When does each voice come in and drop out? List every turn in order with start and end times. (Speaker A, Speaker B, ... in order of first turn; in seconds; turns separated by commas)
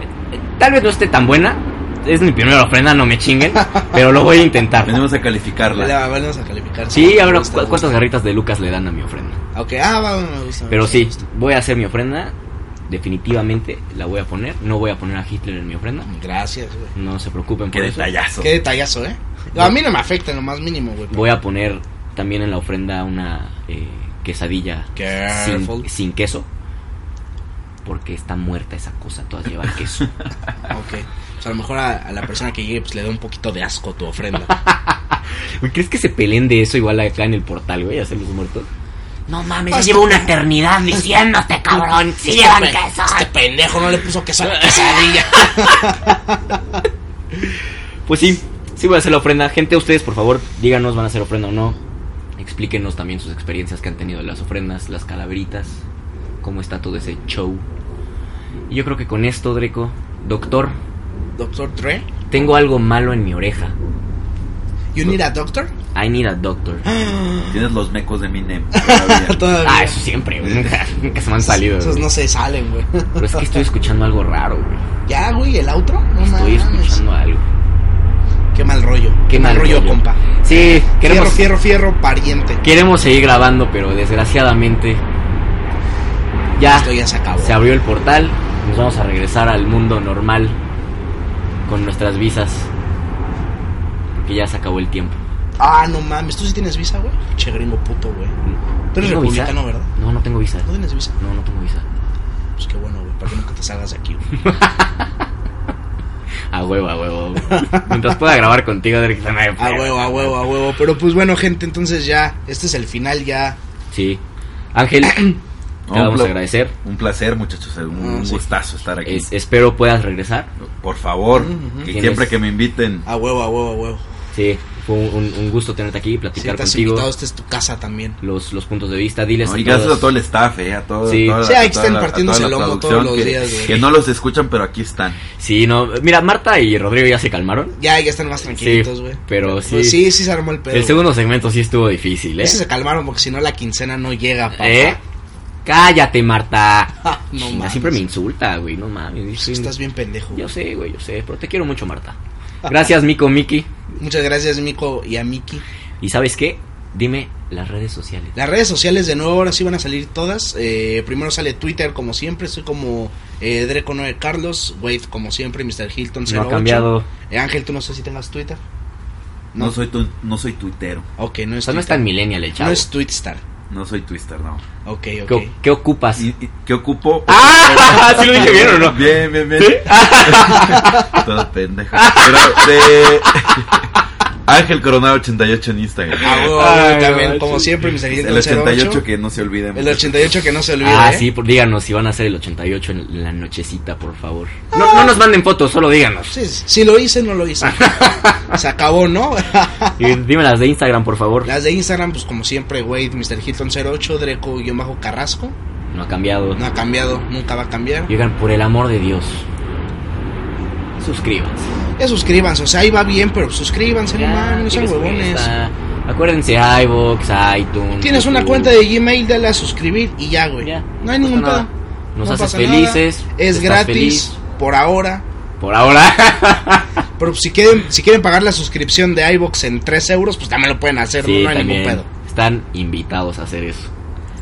Speaker A: 0.3-5.0, Speaker B: 3.6-4.0, Speaker C: 4.8-5.9, Speaker B: 5.7-8.0, Speaker A: 6.9-9.4, Speaker B: 9.5-11.2, Speaker A: 10.7-12.3, Speaker A: 12.9-16.1, Speaker B: 16.1-16.9, Speaker A: 16.9-18.1, Speaker C: 17.7-18.5, Speaker B: 18.4-21.2, Speaker A: 21.1-26.5, Speaker B: 25.0-25.9, Speaker A: 27.9-30.1, Speaker B: 30.7-34.5, Speaker A: 34.5-38.7, Speaker A: 39.3-43.3, Speaker B: 39.7-40.3, Speaker B: 41.8-46.6, Speaker A: 44.4-46.0, Speaker A: 47.4-51.8, Speaker A: 52.4-55.8, Speaker A: 56.4-57.6, Speaker A: 58.7-60.8, Speaker B: 61.4-62.5, Speaker A: 62.3-63.8, Speaker B: 64.9-65.7, Speaker A: 66.0-66.8, Speaker B: 66.9-67.7, Speaker C: 67.5-69.4, Speaker B: 68.7-70.0, Speaker A: 69.6-72.1, Speaker B: 71.4-73.6, Speaker A: 73.2-74.8, Speaker B: 75.1-77.0, Speaker A: 76.2-77.5, Speaker B: 78.5-82.6, Speaker A: 79.3-81.5, Speaker A: 82.6-85.0, Speaker A: 86.6-90.6, Speaker B: 86.7-87.6, Speaker A: 91.7-92.7, Speaker A: 94.1-95.2, Speaker B: 95.6-98.4, Speaker A: 98.5-100.7, Speaker B: 98.9-99.9, Speaker B: 100.7-101.2, Speaker A: 101.2-101.8, Speaker B: 102.6-104.2, Speaker A: 104.3-105.1, Speaker A: 106.5-110.5, Speaker B: 107.5-108.2, Speaker B: 109.6-113.6, Speaker A: 113.9-114.2, Speaker A: 114.7-115.4, Speaker C: 115.9-119.3, Speaker A: 115.9-116.7, Speaker B: 117.9-118.5, Speaker A: 119.0-120.5, Speaker C: 120.6-123.1, Speaker B: 121.3-121.9, Speaker A: 121.9-122.3, Speaker B: 123.1-124.0, Speaker A: 124.3-127.1, Speaker B: 126.4-128.2, Speaker A: 128.2-130.1, Speaker C: 129.4-135.2, Speaker A: 131.1-131.4, Speaker B: 131.4-133.9, Speaker A: 135.4-137.8, Speaker B: 137.8-141.0, Speaker A: 138.5-140.1, Speaker A: 140.7-142.6, Speaker B: 142.4-145.0, Speaker A: 144.6-145.0, Speaker A: 145.7-149.7, Speaker B: 147.1-148.0, Speaker B: 149.4-150.5, Speaker A: 150.3-153.7, Speaker B: 154.0-155.6, Speaker A: 156.0-158.4, Speaker B: 158.4-168.6, Speaker A: 166.3-167.1, Speaker C: 169.6-171.1, Speaker B: 171.2-172.0, Speaker A: 171.7-172.9, Speaker B: 172.6-173.4, Speaker C: 173.7-174.6, Speaker B: 174.8-175.5, Speaker A: 175.3-176.3, Speaker C: 176.2-183.7, Speaker A: 177.3-181.2, Speaker B: 180.3-181.0, Speaker A: 181.9-183.9, Speaker C: 184.5-186.5, Speaker A: 186.2-187.8, Speaker B: 186.2-189.0, Speaker C: 188.1-190.4, Speaker B: 189.7-191.3, Speaker A: 190.8-196.4, Speaker B: 196.3-200.0, Speaker A: 197.6-198.4, Speaker A: 200.0-201.5, Speaker B: 201.4-205.6, Speaker A: 205.9-206.6, Speaker B: 206.6-208.1, Speaker A: 208.1-209.5, Speaker A: 211.0-211.7, Speaker B: 212.0-215.5, Speaker A: 214.1-218.8, Speaker B: 218.0-221.7, Speaker A: 220.6-224.3, Speaker B: 222.2-225.2, Speaker A: 225.6-226.9, Speaker B: 227.2-232.1, Speaker A: 231.2-233.9